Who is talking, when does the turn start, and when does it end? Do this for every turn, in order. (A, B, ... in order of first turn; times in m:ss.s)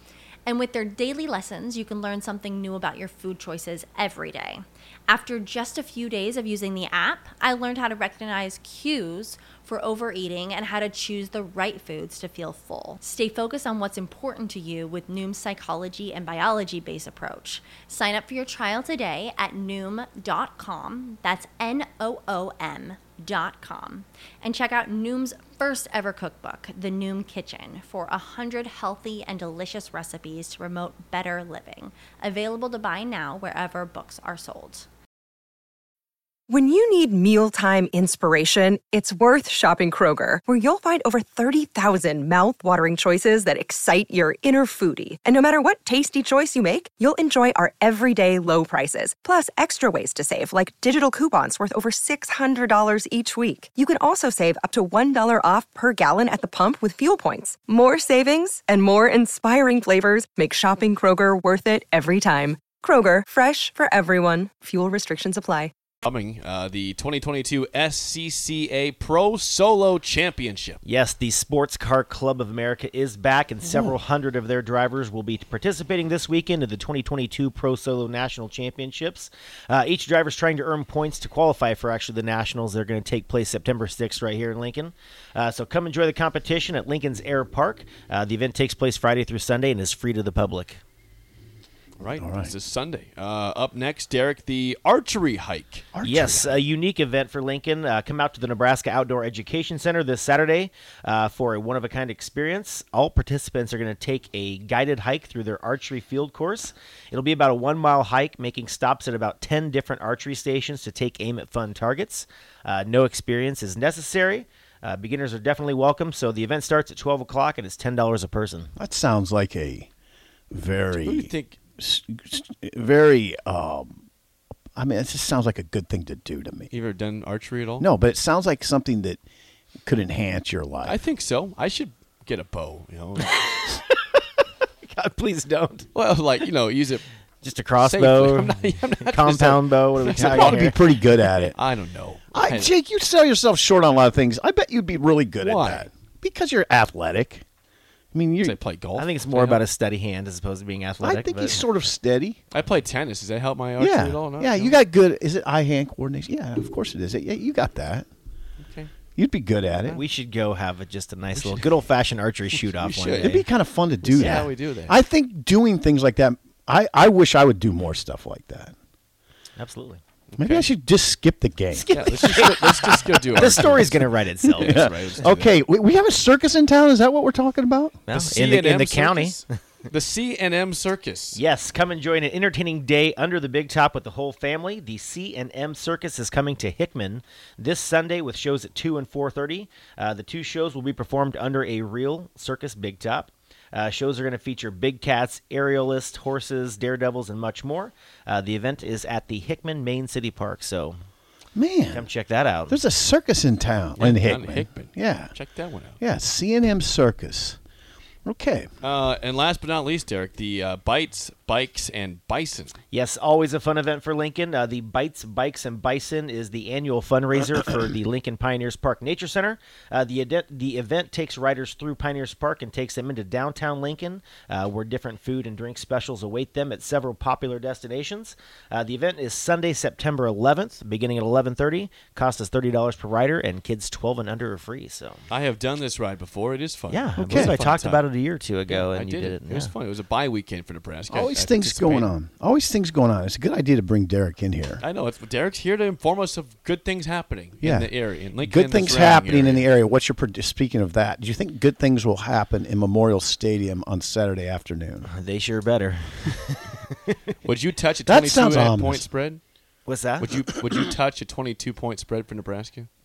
0:00.5-0:34.9 A
0:36.5-1:05.7 B
1:06.0-1:10.8 C
1:10.8-1:30.8 D
1:13.6-1:13.9 E
1:32.0-1:35.9 C
1:32.2-1:32.5 E
1:35.9-1:36.6 E
1:36.0-1:58.7 D
1:58.8-1:59.9 E
2:00.5-2:04.0 E
2:01.0-2:01.6 C
2:04.8-2:06.7 E
2:06.7-2:07.9 C
2:07.8-2:09.2 E
2:09.8-2:11.0 E
2:10.8-2:13.5 C
2:14.8-2:15.9 D
2:15.9-2:17.1 C
2:17.4-2:20.8 D
2:17.8-2:20.8 C
2:20.0-2:21.6 E
2:21.3-2:22.7 C
2:22.3-2:27.4 E
2:25.4-2:25.9 C
2:28.1-2:28.6 E
2:28.4-2:29.6 C
2:29.0-2:31.6 D
2:31.0-2:32.4 E
2:32.5-2:34.8 C
2:33.8-2:38.1 E
2:38.6-2:38.9 C
2:39.2-2:40.0 E
2:39.9-2:43.4 D
2:41.4-2:41.8 C
2:42.5-2:43.5 C
2:43.2-2:48.7 E
2:44.0-2:45.0 C
2:44.1-2:44.5 D
2:49.6-2:50.0 D
2:50.3-2:50.7 C
2:50.4-2:53.0 E
2:51.7-2:55.6 C
2:52.2-2:54.9 D
2:54.4-2:58.0 E
2:58.1-2:59.5 D
2:58.1-3:01.4 C
3:01.3-3:21.0 D
3:21.6-3:22.1 E
3:21.9-3:22.8 D
3:22.7-3:25.4 E
3:24.0-3:26.0 C
3:26.0-3:27.6 E
3:28.2-3:28.7 E
3:28.8-3:32.8 C
3:32.9-3:55.2 D
3:55.3-3:58.1 C
3:56.9-3:59.7 D
3:57.2-3:57.6 E
3:58.7-4:02.1 C
4:01.1-4:04.8 E
4:04.8-4:09.7 C
4:07.6-4:15.1 E
4:15.1-4:17.2 D
4:17.4-4:19.4 C
4:18.0-4:19.1 E
4:19.9-4:20.3 D
4:20.2-4:22.9 C